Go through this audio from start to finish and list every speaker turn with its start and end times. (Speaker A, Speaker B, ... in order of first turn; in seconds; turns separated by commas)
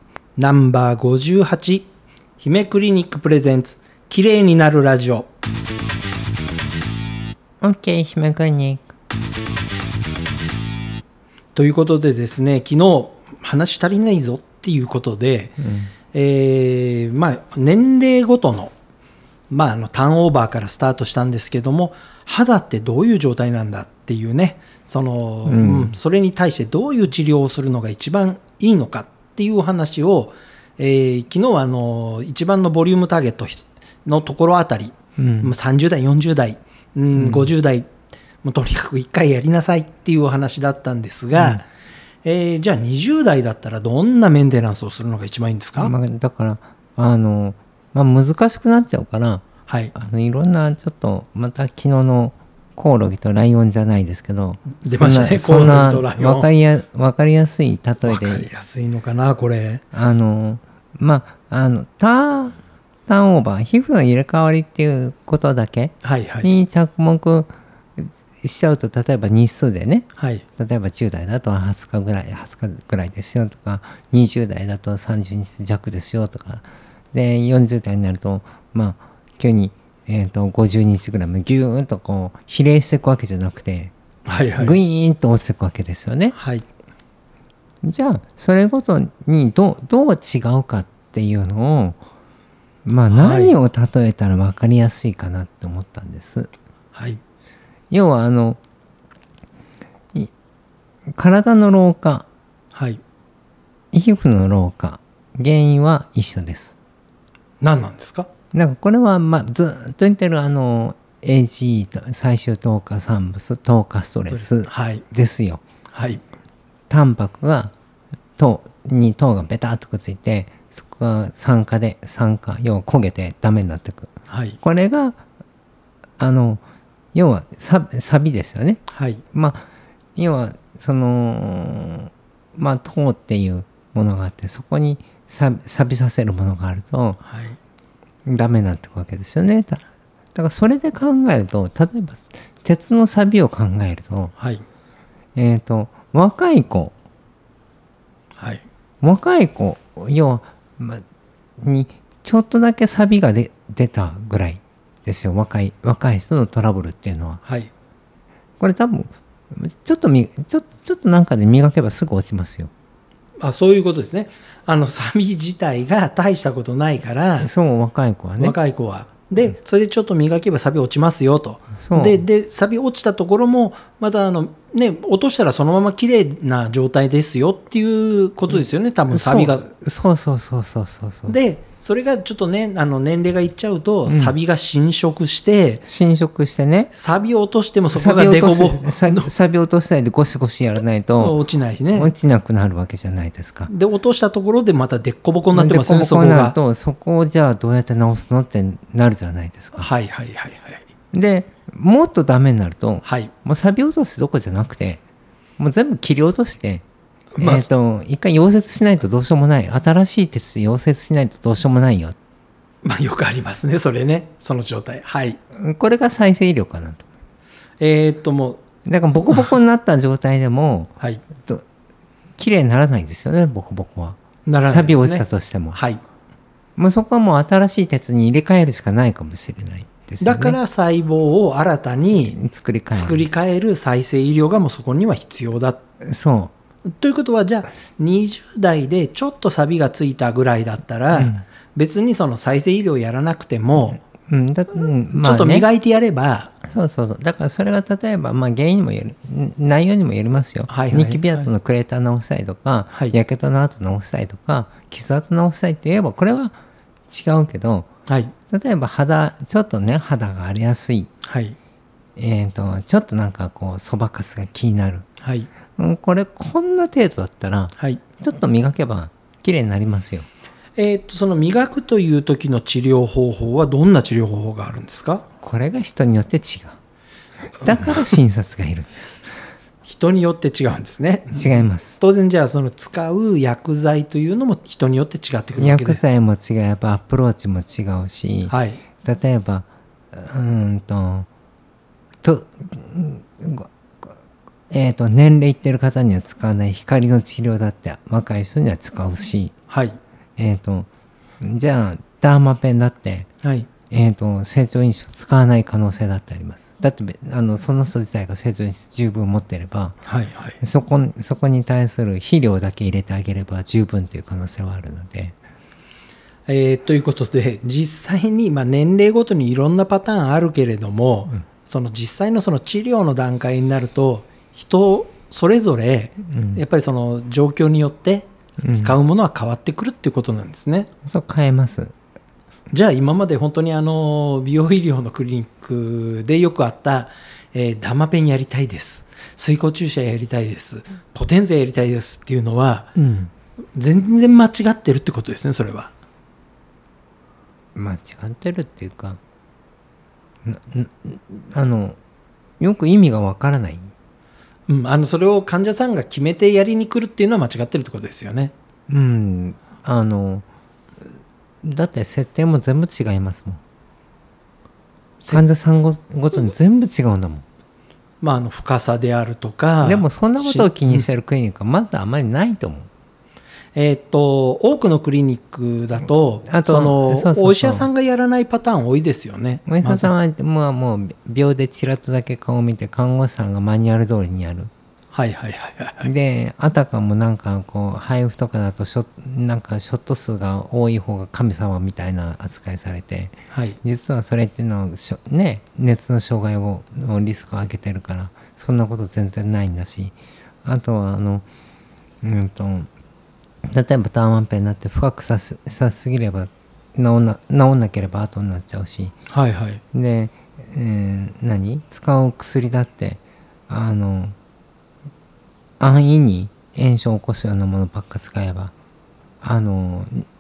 Speaker A: 0.4-1.9, Speaker A: 2.4-5.3, Speaker B: 7.6-8.9, Speaker A: 11.6-15.6, Speaker B: 15.6-15.9, Speaker A: 16.1-18.7, Speaker A: 19.5-37.9, Speaker B: 25.5-25.9, Speaker B: 35.2-35.5, Speaker B: 37.1-37.5, Speaker A: 38.4-41.6, Speaker B: 41.4-41.6, Speaker A: 42.2-45.9, Speaker B: 45.8-58.5, Speaker A: 49.7-49.9, Speaker A: 54.8-56.5, Speaker A: 58.0-59.8, Speaker B: 59.9-62.6, Speaker B: 63.1-70.1, Speaker A: 66.0-66.5, Speaker A: 70.2-70.4, Speaker B: 70.6-83.9, Speaker A: 84.3-84.8, Speaker B: 84.6-86.3, Speaker A: 86.3-86.7, Speaker B: 87.8-92.0, Speaker B: 92.9-96.5, Speaker A: 93.1-93.5, Speaker A: 96.9-97.2, Speaker B: 97.9-98.6, Speaker B: 101.1-102.3, Speaker A: 102.7-103.0, Speaker B: 103.9-106.7, Speaker A: 107.6-108.3, Speaker B: 108.5-115.6, Speaker A: 114.3-115.0, Speaker A: 115.9-116.2, Speaker B: 116.9-117.7, Speaker B: 118.4-124.1, Speaker A: 124.3-124.6, Speaker B: 124.6-125.2, Speaker B: 126.2-126.6, Speaker B: 127.1-128.8, Speaker A: 128.9-129.2, Speaker B: 129.3-137.2, Speaker A: 137.2-137.6, Speaker B: 138.3-139.8, Speaker B: 140.3-144.3, Speaker A: 144.4-144.6, Speaker B: 145.4-146.9, Speaker A: 148.4-148.6, Speaker B: 149.0-151.0, Speaker B: 151.6-157.4, Speaker A: 157.4-157.7, Speaker B: 158.6-162.7, Speaker A: 163.4-167.5, Speaker B: 167.4-168.6, Speaker A: 168.4-179.7, Speaker B: 171.8-172.2, Speaker B: 178.5-181.4, Speaker A: 181.3-185.8, Speaker B: 184.1-184.3, Speaker B: 185.9-186.9, Speaker A: 186.9-189.3, Speaker B: 187.9-191.4, Speaker A: 191.2-192.1, Speaker B: 191.9-193.7, Speaker A: 193.7-196.6, Speaker B: 195.5-199.9, Speaker A: 199.8-200.9, Speaker B: 201.1-205.0, Speaker A: 203.0-203.3, Speaker B: 205.6-206.8, Speaker A: 207.4-207.7, Speaker B: 207.4-212.2, Speaker A: 212.8-215.4, Speaker B: 215.6-217.1, Speaker A: 217.8-219.6, Speaker B: 218.8-221.6, Speaker B: 222.4-225.8, Speaker A: 224.4-226.0, Speaker B: 226.8-230.6, Speaker A: 230.2-232.4, Speaker B: 232.3-233.2, Speaker A: 232.9-235.8, Speaker B: 236.0-236.5, Speaker A: 237.0-244.0, Speaker B: 241.1-241.4, Speaker B: 243.8-245.7, Speaker A: 245.1-246.5, Speaker B: 246.7-256.6, Speaker A: 250.7-251.5, Speaker B: 257.1-257.9, Speaker A: 258.1-258.3, Speaker B: 258.5-261.1, Speaker A: 261.2-261.6, Speaker B: 262.2-265.1, Speaker A: 265.2-265.5, Speaker B: 265.8-270.3, Speaker A: 267.8-268.0, Speaker A: 270.8-275.2, Speaker B: 275.4-276.8, Speaker B: 277.6-279.3, Speaker A: 279.8-286.0, Speaker B: 281.3-282.0, Speaker B: 285.6-291.3, Speaker A: 288.5-288.8, Speaker B: 292.2-294.1, Speaker B: 294.7-299.5, Speaker A: 299.7-300.0, Speaker B: 300.4-300.9, Speaker B: 301.4-303.3, Speaker A: 303.4-303.7, Speaker B: 303.9-310.0, Speaker A: 310.1-310.6, Speaker B: 310.6-315.4, Speaker A: 316.5-330.9, Speaker B: 326.3-326.6, Speaker B: 328.6-329.0, Speaker B: 331.1-331.9, Speaker A: 332.7-342.9, Speaker B: 343.0-343.3, Speaker A: 343.8-345.9, Speaker B: 347.8-349.2, Speaker B: 350.4-352.0, Speaker B: 352.6-353.9, Speaker A: 354.7-358.5, Speaker B: 358.9-360.4, Speaker B: 361.6-363.6, Speaker B: 365.3-367.4, Speaker A: 368.2-371.1, Speaker B: 369.8-372.9, Speaker A: 373.8-380.1, Speaker B: 376.5-377.9, Speaker B: 379.7-384.7, Speaker A: 385.1-386.1, Speaker B: 386.0-401.4, Speaker A: 393.5-393.8, Speaker B: 402.2-402.9, Speaker B: 403.7-409.1, Speaker A: 409.3-409.8, Speaker B: 409.9-414.4, Speaker B: 415.8-418.7, Speaker B: 419.4-420.2